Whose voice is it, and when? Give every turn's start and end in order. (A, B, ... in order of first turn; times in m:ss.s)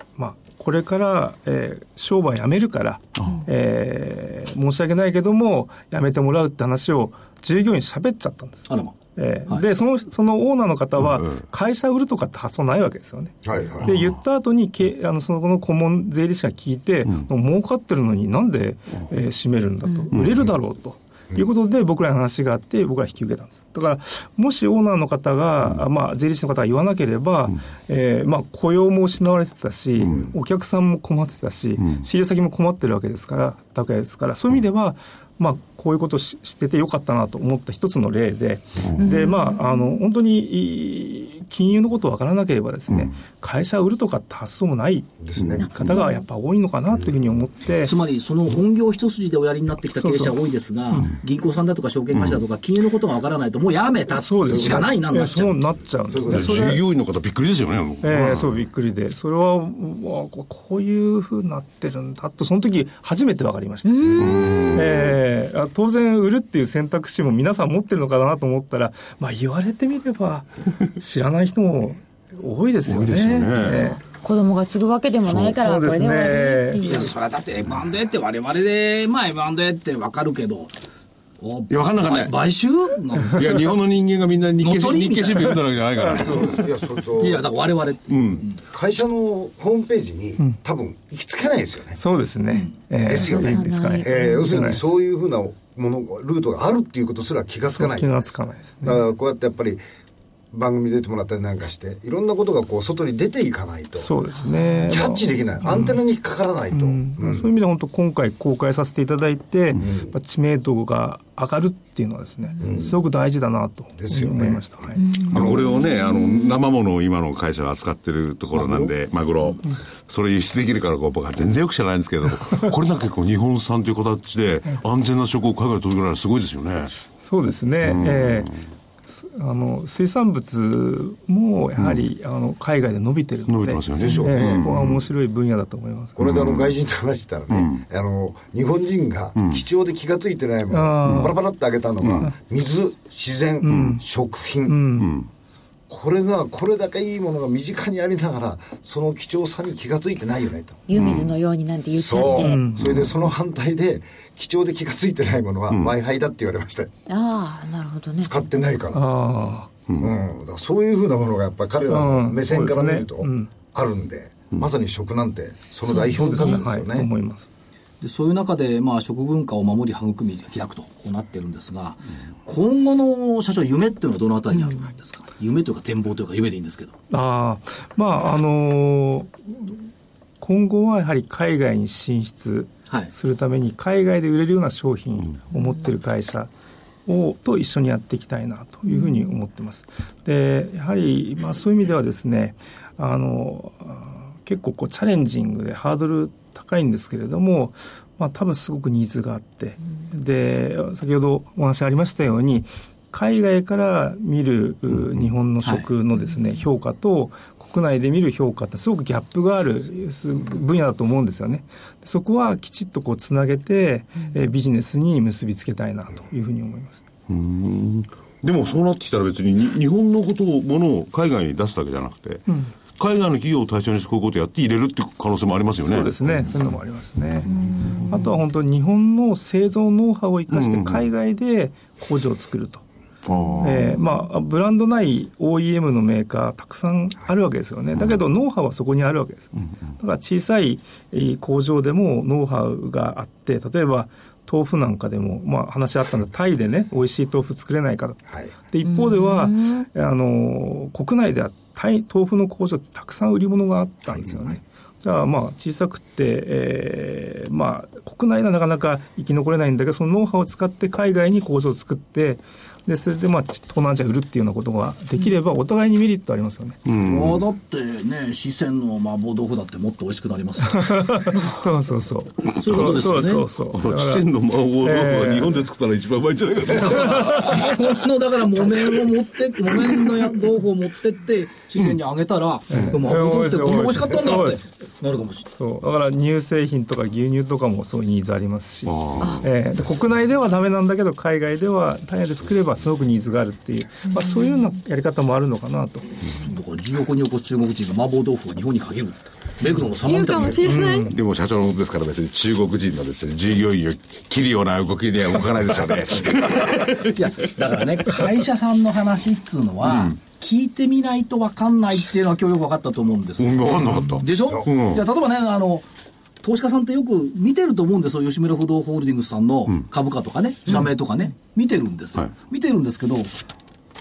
0:00.2-0:47.9 A
0:03.2-0:03.4 B
0:08.7-0:09.0 C
0:11.0-0:11.4 B
0:13.4-0:13.9 D
0:30.0-0:30.3 B
0:39.0-0:39.9 E
0:45.2-0:46.0 D
0:45.6-0:46.2 E
0:47.8-0:55.6 C
0:50.0-0:50.3 A
0:54.1-0:56.8 A
0:54.5-0:54.9 D
0:56.1-0:56.7 D
0:56.3-0:58.6 B
0:58.0-1:14.0 A
1:03.8-1:04.6 E
1:04.2-1:05.2 B
1:12.9-1:13.9 B
1:13.8-1:17.1 E
1:15.4-1:17.1 A
1:16.8-1:20.7 C
1:21.4-1:23.8 C
1:21.7-1:22.3 B
1:23.3-1:26.6 B
1:24.6-1:25.6 C
1:26.0-1:26.3 A
1:26.2-1:27.5 D
1:27.2-1:28.6 C
1:28.1-1:28.4 B
1:28.7-1:32.0 D
1:32.0-1:34.8 A
1:33.0-1:39.8 D
1:33.1-1:34.7 E
1:37.7-1:39.0 A
1:40.5-1:44.1 D
1:44.0-1:46.0 A
1:44.9-1:47.5 D
1:46.7-1:55.0 A
1:49.8-1:50.1 D
1:52.6-1:53.0 D
1:54.0-1:55.7 D
1:55.0-1:56.5 E
1:55.3-2:06.9 B
1:58.6-1:58.9 D
2:07.2-2:16.2 A
2:07.8-2:08.6 B
2:13.5-2:15.1 B
2:14.0-2:14.7 D
2:16.2-2:24.8 D
2:16.2-2:16.7 B
2:20.7-2:21.4 A
2:21.1-2:21.3 B
2:23.6-2:24.0 A
2:24.7-2:25.2 A
2:25.0-2:25.3 B
2:25.9-2:31.0 D
2:30.9-2:32.6 E
2:30.9-2:31.3 B
2:31.9-2:36.9 D
2:32.4-2:33.0 A
2:37.1-2:38.3 E
2:38.2-2:39.0 D
2:38.9-2:39.7 A
2:40.0-2:47.1 D
2:41.9-2:43.5 A
2:45.9-2:46.6 E
2:46.1-2:47.5 A
2:48.0-2:57.0 C
2:57.1-2:59.8 A
3:00.4-3:06.5 A
3:07.1-3:37.0 A
3:37.3-3:42.4 B
3:43.0-3:46.7 B
3:45.8-3:52.8 A
3:47.5-3:48.3 E
3:47.6-3:48.0 B
3:50.5-3:51.0 B
3:53.2-3:54.0 B
3:53.6-4:26.8 A
4:08.3-4:08.5 D
4:08.8-4:09.9 E
4:14.1-4:14.6 D
4:26.9-4:27.4 B
4:27.0-4:31.4 C
4:30.7-4:34.3 A
4:32.5-4:33.5 C
4:32.7-4:33.1 B
4:33.7-4:37.6 B
4:34.8-4:35.7 A
4:36.7-4:45.5 C
4:42.7-4:44.6 A
4:45.5-4:56.2 A
4:48.9-4:49.5 B
4:54.1-4:54.5 E
4:56.4-5:00.7 C
5:00.0-5:01.2 E
5:00.6-5:01.2 A
5:01.1-5:07.1 B
5:06.4-5:15.9 C
5:09.8-5:10.2 B
5:13.4-5:15.0 B
5:16.4-5:23.3 C